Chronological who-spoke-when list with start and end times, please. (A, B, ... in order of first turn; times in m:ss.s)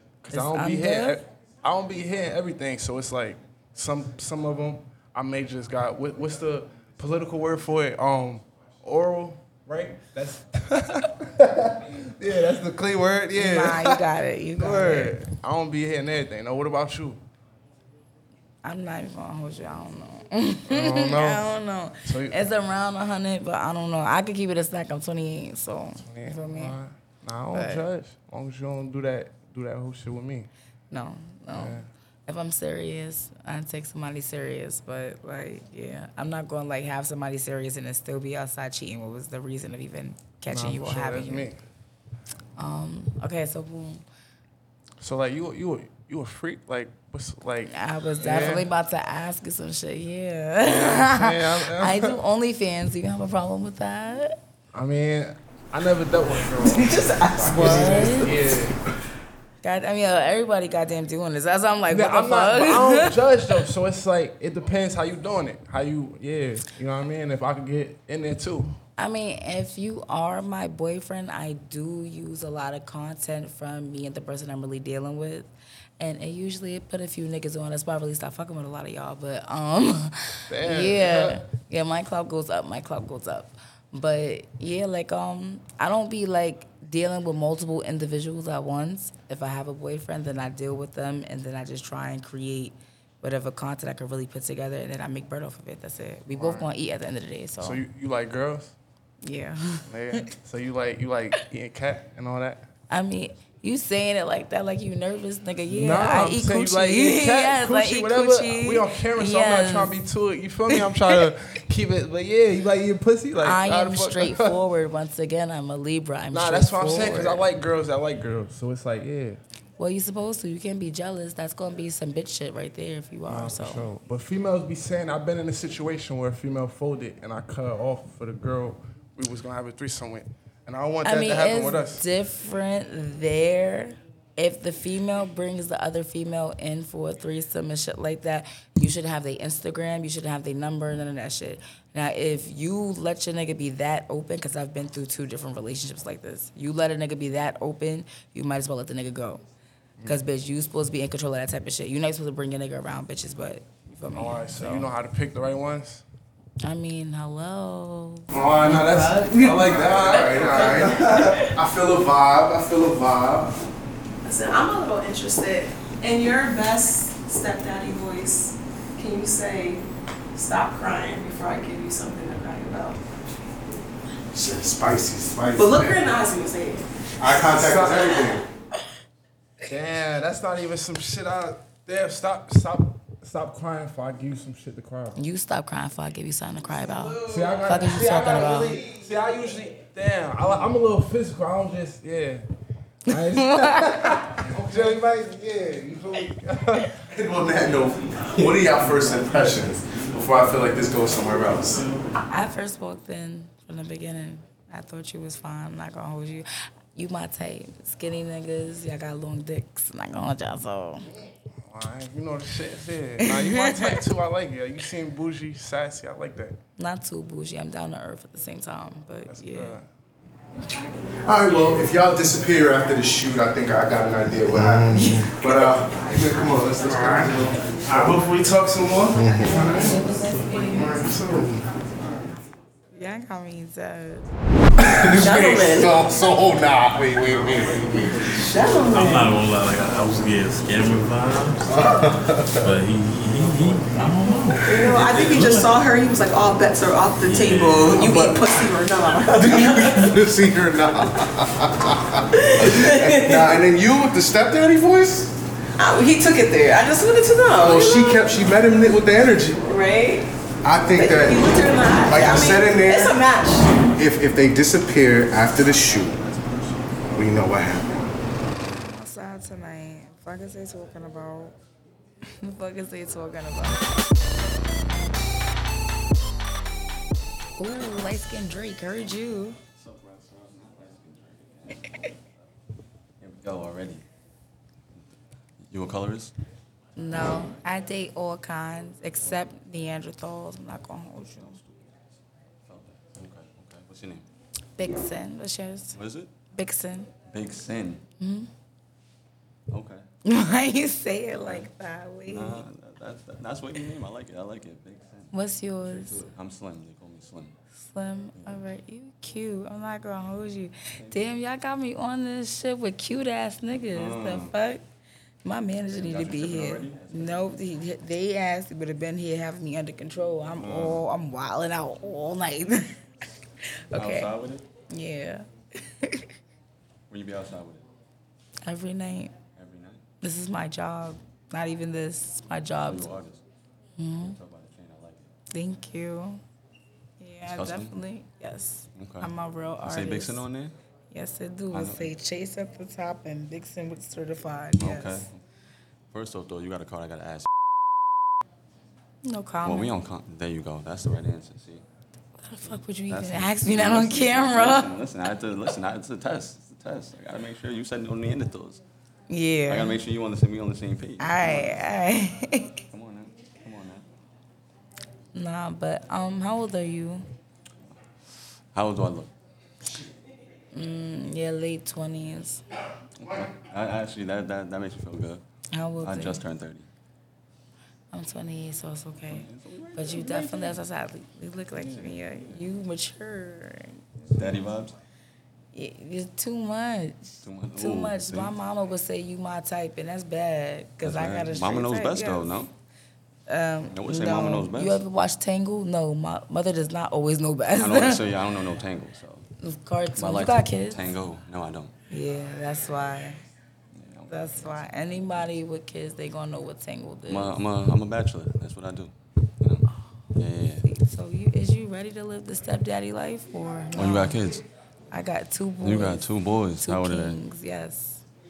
0:00.2-0:14.1 A
0:00.3-0:01.2 B
0:13.3-0:15.2 B
0:14.6-0:17.2 A
0:18.6-0:26.8 B
0:20.7-0:21.4 A
0:22.0-0:22.4 A
0:26.0-0:30.5 A
0:27.5-0:27.8 B
0:30.9-0:41.5 B
0:31.5-0:31.9 A
0:40.5-0:41.6 A
0:42.6-0:44.0 B
0:45.0-0:48.7 A
0:47.7-0:54.4 B
0:50.6-0:52.2 A
0:54.7-0:58.8 A
0:56.6-0:57.9 C
0:57.4-0:58.5 B
0:59.6-1:03.6 B
1:01.9-1:08.8 A
1:09.0-1:37.8 B
1:20.5-1:21.5 A
1:36.3-1:36.7 A
1:37.6-1:38.8 A
1:39.2-1:40.3 B
1:39.9-1:42.7 A
1:42.9-1:50.0 B
1:45.7-1:54.6 A
1:50.7-1:51.1 B
1:53.4-1:57.5 B
1:56.3-1:59.4 A
1:59.8-2:03.9 B
2:03.3-2:12.0 A
2:11.0-2:29.4 B
2:30.0-2:34.9 B
2:34.1-2:36.0 A
2:36.6-2:39.3 B
2:38.3-2:41.3 A
2:38.7-2:41.5 C
2:39.4-2:43.6 D
2:44.2-2:53.0 C
2:54.3-2:56.0 D
2:55.6-2:56.9 C
2:57.2-2:58.4 D
2:57.5-2:58.1 A
2:59.7-3:05.2 A
3:05.2-3:08.9 B
3:07.1-3:12.4 A
3:13.1-3:17.0 A
3:13.1-3:14.3 B
3:17.1-3:21.9 D
3:22.3-3:31.1 B
3:31.6-3:36.6 A
3:33.2-3:34.0 B
3:36.8-3:39.8 B
3:39.3-3:39.9 A
3:41.2-3:48.2 D
3:44.9-3:45.3 B
3:45.9-3:47.6 C
3:47.2-3:48.6 E
3:48.5-3:52.2 A
3:49.1-3:50.1 D
3:49.4-3:51.5 B
3:50.9-3:51.4 D
3:52.9-3:54.3 B
3:54.8-3:58.2 D
3:55.0-3:56.0 C
3:58.3-3:59.4 C
3:58.9-4:05.7 E
4:01.8-4:02.6 D
4:04.6-4:10.3 C
4:07.2-4:08.4 E
4:08.1-4:08.3 D
4:09.3-4:15.3 D
4:12.3-4:13.6 C
4:15.8-4:18.4 C
4:17.6-4:19.6 D
4:19.6-4:20.3 C
4:20.6-4:23.2 D
4:20.9-4:23.7 C
4:24.0-4:26.2 D
4:27.1-4:28.1 D
4:28.6-4:31.6 B
4:32.4-4:33.9 B
4:37.6-4:39.6 B
4:39.8-4:42.1 F
4:43.2-4:44.0 F
4:45.6-4:46.3 F
4:47.0-4:51.6 B
4:51.2-4:51.9 F
4:52.7-4:54.2 F
4:54.8-4:56.0 B
4:55.9-4:56.3 F
4:56.5-4:57.2 B
4:57.2-4:58.0 F
4:58.2-4:58.5 B
4:59.7-5:00.1 F
5:00.2-5:02.6 B
5:01.4-5:01.7 F
5:02.3-5:07.5 F
5:05.3-5:06.2 B
5:07.8-5:14.8 B
5:08.3-5:08.6 F
5:11.0-5:11.3 F
5:13.9-5:14.5 F
5:15.4-5:23.0 B
5:15.9-5:17.5 F
5:20.6-5:21.0 F
5:23.9-5:24.3 B
5:23.9-5:24.6 F
5:24.9-5:25.5 B
5:26.0-5:26.3 B
5:27.1-5:27.9 F
5:28.6-5:29.4 B
5:29.5-5:30.0 F
5:30.2-5:33.1 B
5:32.8-5:33.4 F
5:34.0-5:34.4 B
5:34.2-5:35.3 F
5:35.5-5:36.4 B
5:37.2-5:40.4 B
5:37.4-5:38.0 F
5:38.9-5:39.3 F
5:39.8-5:40.8 F
5:41.1-5:45.3 B
5:41.7-5:42.1 F
5:44.8-5:45.4 F
5:46.1-5:47.5 F
5:49.2-5:49.9 B
5:49.6-5:51.8 F
5:52.4-5:54.9 B
5:52.7-5:58.8 F
5:59.3-6:00.0 B
5:59.7-6:01.8 F
6:01.2-6:02.8 B
6:02.9-6:04.1 F
6:05.3-6:07.3 B
6:08.7-6:09.3 F
6:10.7-6:12.6 B
6:13.2-6:15.4 F
6:15.7-6:16.4 B
6:16.0-6:16.9 F
6:18.1-6:24.5 B
6:19.3-6:20.8 F
6:21.7-6:22.7 F
6:24.2-6:24.9 F
6:25.7-6:32.5 B
6:27.4-6:28.5 F
6:31.0-6:32.7 F
6:33.5-6:38.3 B
6:33.9-6:35.0 F
6:37.8-6:39.5 F
6:39.6-6:41.1 B
6:40.2-6:41.9 F
6:42.1-6:43.4 B
6:43.9-6:44.8 F
6:44.3-6:47.6 B
6:47.3-6:50.9 F
6:50.8-6:54.4 B
6:54.0-6:54.6 F
6:55.1-6:58.2 B
6:55.8-6:57.4 F